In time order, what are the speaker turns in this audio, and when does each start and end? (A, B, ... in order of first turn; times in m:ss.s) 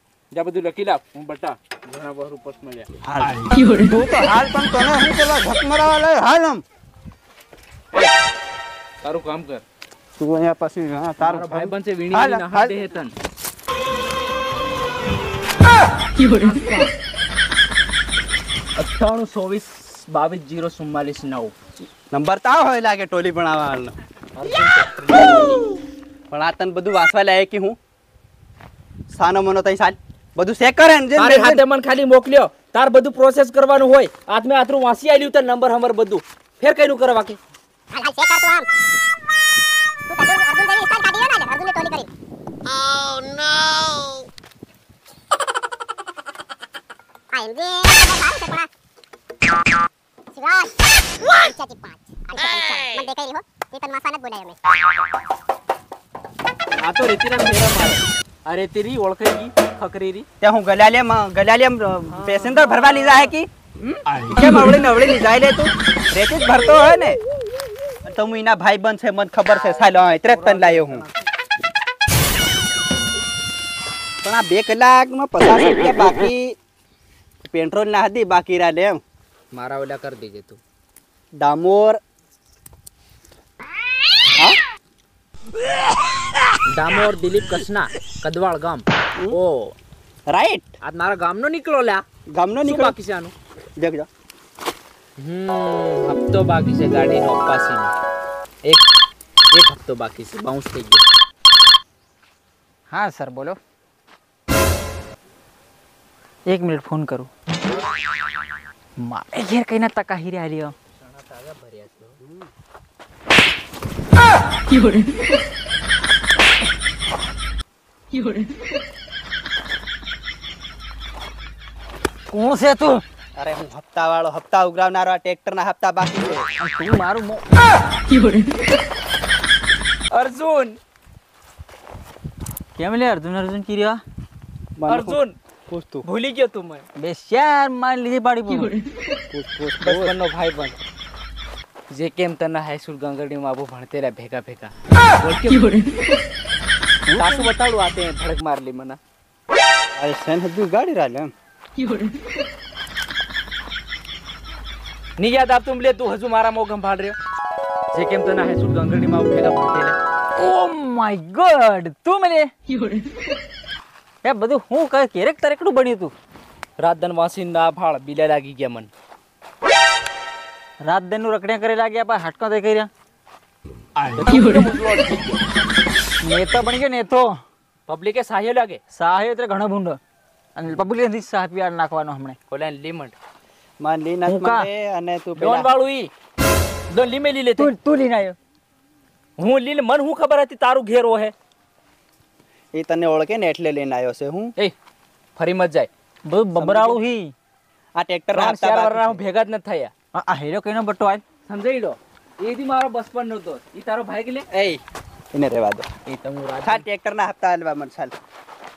0:00.3-0:02.9 A
0:03.0-0:06.6 B
0:09.0-0:09.6 A
0:10.2-0:12.7 B
0:11.2-0:13.2 A
0:16.2-0:16.9 A
0:18.8-0:21.6 A
0:22.1-0:23.9 B
0:24.4-0:25.6 A
0:26.3-0:27.8 B
0:29.1-0:31.6 B
0:31.2-0:37.4 A
0:37.9-0:38.7 C
0:40.1-0:42.1 C
0:42.9-0:44.2 C
0:47.3-0:48.7 C
0:50.3-0:50.7 C
0:51.4-0:54.6 C
0:56.8-1:00.3 A
1:00.4-1:03.5 B
1:02.2-1:04.0 A
1:04.3-1:07.2 B
1:08.0-1:11.0 B
1:10.3-1:11.1 A
1:14.2-1:16.6 B
1:17.4-1:19.0 B
1:19.5-1:20.6 A
1:21.4-1:22.0 B
1:26.7-1:29.8 A
1:30.3-1:30.7 B
1:30.8-1:32.0 A
1:32.3-1:33.0 B
1:32.6-1:33.3 A
1:33.8-1:34.1 B
1:35.2-1:37.9 A
1:39.5-1:41.0 A
1:42.9-1:43.6 D
1:46.5-1:47.3 D
1:49.0-1:50.8 D
1:51.0-1:52.2 A
2:02.3-2:03.0 D
2:03.4-2:06.4 B
2:06.6-2:07.4 D
2:10.1-2:10.8 A
2:12.8-2:14.0 D
2:14.8-2:16.1 B
2:14.9-2:15.4 A
2:16.0-2:16.8 A
2:17.0-2:18.8 D
2:19.3-2:20.1 B
2:19.8-2:20.8 A
2:21.9-2:25.8 A
2:27.1-2:27.5 D
2:27.1-2:29.0 A
2:30.0-2:31.3 B
2:35.2-2:37.2 A
2:37.9-2:40.0 A
2:40.4-2:42.5 D
2:44.2-2:46.1 D
2:46.8-2:48.9 A
2:50.8-2:52.9 D
2:54.1-2:55.4 A
2:56.2-2:57.4 D
2:57.9-2:58.8 A
2:58.9-3:00.0 D
3:00.6-3:02.4 D
3:02.5-3:03.2 A
3:03.8-3:05.7 B
3:04.3-3:04.7 D
3:05.4-3:06.1 A
3:06.9-3:07.7 A
3:07.6-3:08.4 D
3:09.4-3:11.3 A
3:12.7-3:14.5 B
3:15.4-3:15.9 A
3:16.3-3:17.3 D
3:16.6-3:17.0 B
3:18.0-3:19.2 B
3:18.3-3:19.9 A
3:20.1-3:21.2 D
3:21.5-3:24.5 A
3:24.5-3:24.8 B
3:25.3-3:25.9 B
3:26.1-3:26.8 A
3:26.6-3:28.1 B